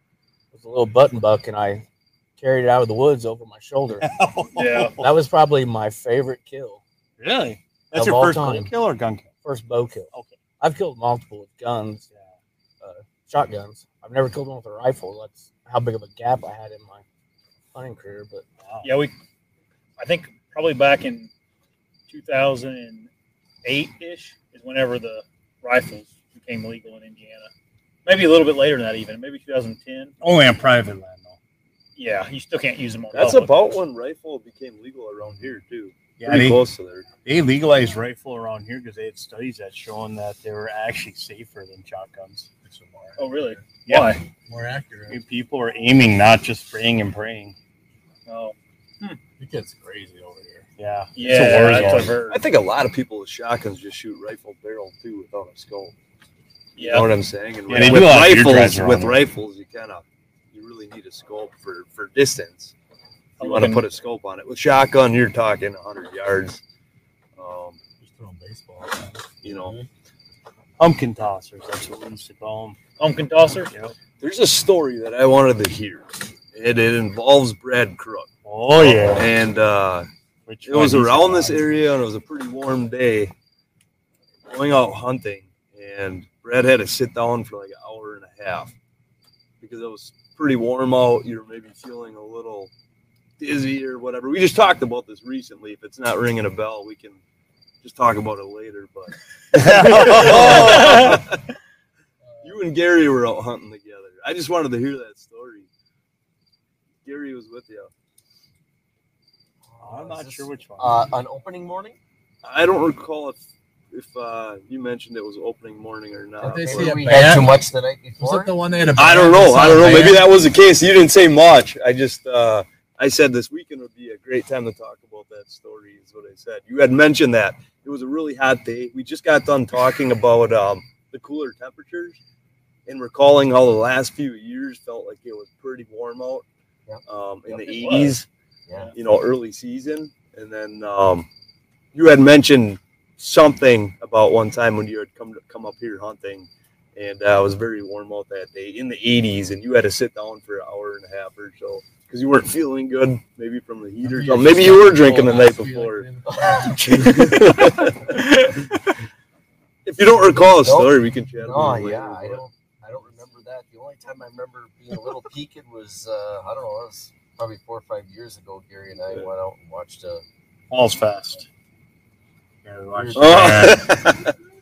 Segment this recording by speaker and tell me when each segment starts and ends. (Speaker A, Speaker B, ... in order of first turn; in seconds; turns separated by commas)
Speaker A: 0.5-1.8, Speaker A: 2.4-4.1, Speaker B: 4.0-5.1, Speaker C: 4.6-4.9, Speaker A: 5.0-6.8, Speaker B: 7.2-9.3, Speaker A: 8.0-8.7, Speaker A: 9.4-12.1, Speaker B: 10.1-10.4, Speaker B: 12.1-12.4, Speaker A: 12.8-17.0, Speaker A: 17.7-18.4, Speaker B: 18.6-18.9, Speaker C: 18.8-19.1, Speaker C: 20.0-21.3, Speaker C: 22.1-23.1, Speaker C: 23.6-27.5, Speaker C: 28.1-30.1, Speaker B: 30.2-31.4, Speaker C: 32.0-33.6, Speaker D: 33.1-37.1, Speaker B: 36.2-36.7, Speaker B: 37.2-42.5, Speaker E: 42.6-43.8, Speaker C: 43.2-44.2, Speaker B: 43.9-44.2, Speaker E: 44.5-45.2, Speaker B: 45.1-47.6, Speaker C: 48.3-49.2, Speaker E: 49.4-50.7, Speaker B: 50.8-52.2, Speaker C: 51.2-52.4, Speaker D: 52.2-55.9, Speaker C: 56.8-57.1, Speaker D: 56.8-62.7, Speaker B: 57.7-59.3, Speaker C: 63.4-63.9, Speaker D: 63.4-66.6, Speaker D: 67.4-67.8, Speaker E: 68.0-69.3, Speaker D: 69.4-69.8, Speaker F: 69.5-69.9, Speaker B: 70.8-72.8, Speaker C: 73.0-73.7, Speaker B: 73.7-74.0, Speaker D: 74.2-80.1, Speaker B: 78.5-79.3, Speaker B: 80.5-81.7, Speaker D: 80.7-83.3, Speaker D: 84.5-88.7, Speaker D: 89.6-92.7, Speaker D: 93.4-97.2, Speaker D: 97.8-101.4, Speaker B: 99.5-101.0, Speaker C: 100.0-101.2, Speaker E: 102.3-102.6, Speaker D: 102.4-105.7, Speaker D: 107.0-107.9, Speaker F: 109.7-112.0, Speaker B: 109.8-111.1, Speaker D: 112.4-113.4, Speaker D: 113.9-117.0, Speaker F: 116.4-118.6, Speaker E: 116.4-117.6, Speaker E: 118.2-120.3, Speaker D: 119.0-132.2, Speaker D: 132.9-136.5, Speaker F: 136.9-137.6, Speaker D: 137.1-138.3, Speaker C: 137.7-138.2, Speaker F: 138.7-138.9, Speaker D: 138.9-141.3, Speaker D: 141.9-158.5, Speaker E: 154.0-157.6, Speaker F: 156.3-157.1, Speaker D: 159.8-162.4, Speaker F: 160.3-170.2, Speaker B: 170.7-171.5, Speaker B: 172.7-173.9, Speaker F: 172.9-173.8, Speaker D: 173.2-174.3